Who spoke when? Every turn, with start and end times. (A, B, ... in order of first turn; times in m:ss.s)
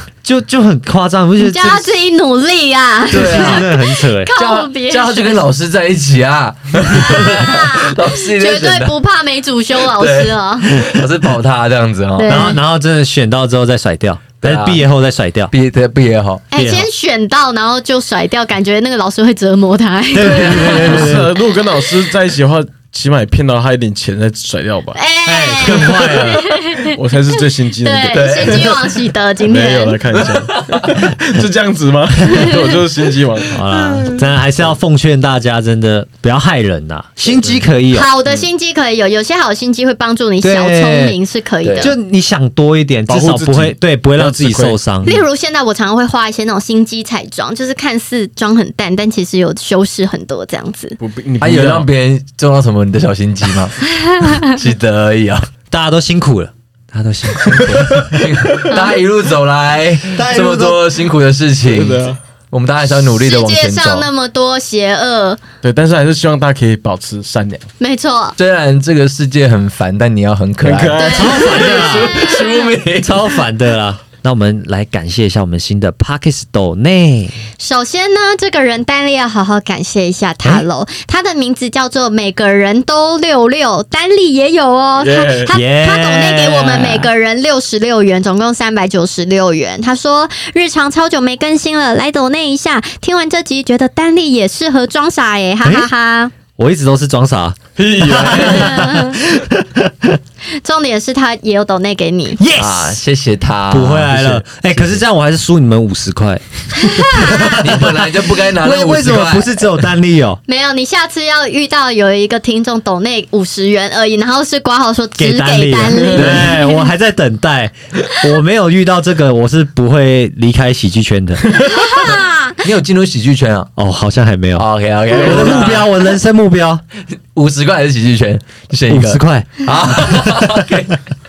0:00.2-0:01.9 A
0:01.4-0:05.4 B
0:03.1-0:03.7 C
0:03.1-0:04.3 A
0:04.4-0:08.9 C
0:06.9-0:10.7 B
0:09.8-0:12.6 C
0:12.2-0:12.6 B
0:12.2-0:15.5 A
0:14.4-0:14.8 C
0:15.5-0:16.4 C
0:16.5-0:21.1 B
0:16.5-0:16.8 A
0:20.1-0:21.3 A
0:20.5-0:25.0 D
0:24.9-0:30.0 B
0:25.2-0:26.4 A
0:25.7-0:28.8 D
0:28.1-0:28.9 C
0:29.5-0:33.6 D
0:30.2-0:31.1 C
0:33.5-0:38.1 A
0:37.3-0:37.6 D
0:37.9-0:41.9 B
0:40.4-0:41.2 A
0:41.6-0:41.9 C
0:41.8-0:45.2 A
0:43.1-0:44.8 D
0:45.0-0:51.0 B
0:51.0-0:51.9 D
0:51.4-0:53.8 C
0:54.4-0:55.4 C
0:55.7-0:58.2 A
0:57.4-1:04.1 C
1:00.2-1:00.8 A
1:01.7-1:02.2 D
1:03.0-1:05.4 B
1:05.6-1:07.6 D
1:07.8-1:08.4 B
1:08.4-1:13.2 C
1:10.6-1:11.9 D
1:10.9-1:12.6 B
1:11.1-1:12.1 A
1:13.0-1:17.4 A
1:17.6-1:36.3 B
1:25.0-1:25.5 D
1:25.5-1:27.1 A
1:35.6-1:35.9 A
1:36.5-1:40.2 A
1:37.8-1:39.0 D
1:38.5-1:39.2 B
1:40.6-1:42.4 B
1:42.4-1:43.0 A
1:42.6-1:45.0 C
1:43.7-1:50.4 A
1:46.8-1:47.6 B
1:47.4-1:49.6 C
1:50.5-1:56.8 B
1:55.2-2:01.7 A
1:56.1-1:56.4 D
1:56.2-1:56.5 C
2:01.7-2:02.6 B
2:02.0-2:03.7 C
2:03.8-2:06.8 A
2:04.6-2:05.9 C
2:05.3-2:05.7 D
2:07.3-2:10.9 C
2:08.9-2:10.5 A